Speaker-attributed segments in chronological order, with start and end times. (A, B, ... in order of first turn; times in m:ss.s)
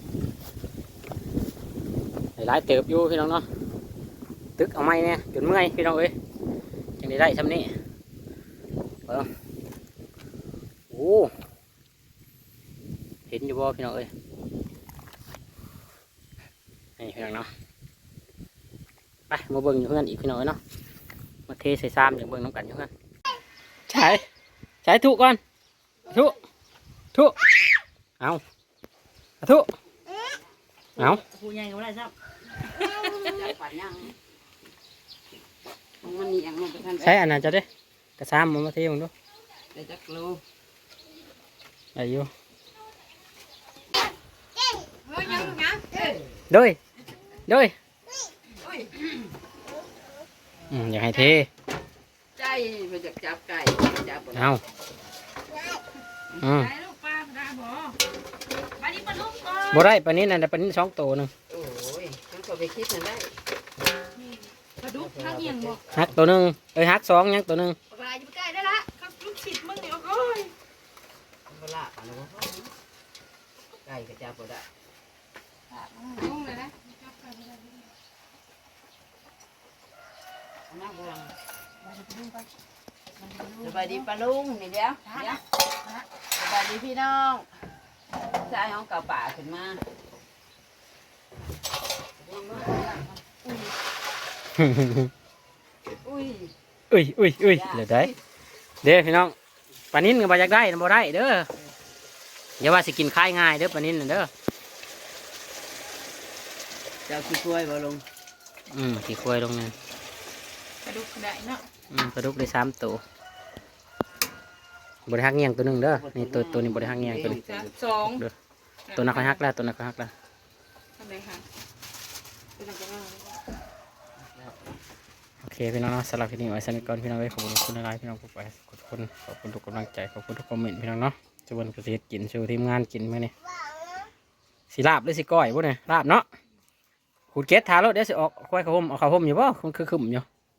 0:02.4-0:03.4 A
0:04.6-0:06.1 A
0:07.0-0:07.7 A
0:10.9-0:11.3 A
0:13.3-0:14.1 A
0:17.0-0:17.5 A
0:19.3-0:20.6 A
0:21.5-0:22.9 A
0:23.9-0:24.2 A
0:24.8-0:25.4 A
0:26.1-0:26.4 A
0:27.1-0:27.5 A
0:29.4-0:29.7 A
0:31.0-0:32.1 A
0:32.8-0:33.3 A
0:33.0-0:34.1 B
0:36.0-0:37.2 B
0:37.0-0:37.7 A
0:38.2-0:39.1 A
0:39.7-0:40.4 B
0:41.9-0:42.3 A
0:45.0-0:46.1 C
0:45.2-0:46.2 B
0:46.5-0:46.8 A
0:47.4-0:47.7 A
0:48.6-0:49.1 B
0:50.7-0:51.5 A
0:52.4-0:54.5 B
0:54.3-0:54.6 A
0:56.3-0:56.7 A
0:56.5-0:58.0 C
0:58.8-0:59.8 C
0:59.7-1:01.3 A
1:01.5-1:03.4 B
1:04.2-1:05.8 C
1:04.9-1:06.1 B
1:05.9-1:07.8 A
1:07.9-1:10.5 C
1:11.5-1:12.7 B
1:13.8-1:14.7 B
1:15.7-1:17.8 C
1:20.7-1:21.3 B
1:21.8-1:22.5 C
1:23.2-1:24.0 C
1:23.6-1:25.4 B
1:25.1-1:26.0 C
1:26.3-1:27.5 B
1:28.4-1:29.8 B
1:32.2-1:33.0 B
1:34.6-1:35.1 A
1:36.0-1:36.5 B
1:36.9-1:38.1 A
1:37.5-1:38.1 B
1:38.8-1:39.3 A
1:39.9-1:41.5 A
1:42.6-1:44.3 A
1:47.0-1:48.0 B
1:48.7-1:49.7 A
1:50.8-1:51.7 C
1:51.9-1:53.0 A
1:55.1-1:58.3 A
1:55.9-1:57.6 B
1:57.2-1:58.2 C
1:58.9-1:59.4 C
1:58.9-2:00.1 A
2:01.0-2:01.4 C
2:02.6-2:03.4 C
2:05.4-2:13.3 A
2:14.7-2:16.2 A
2:17.3-2:20.2 A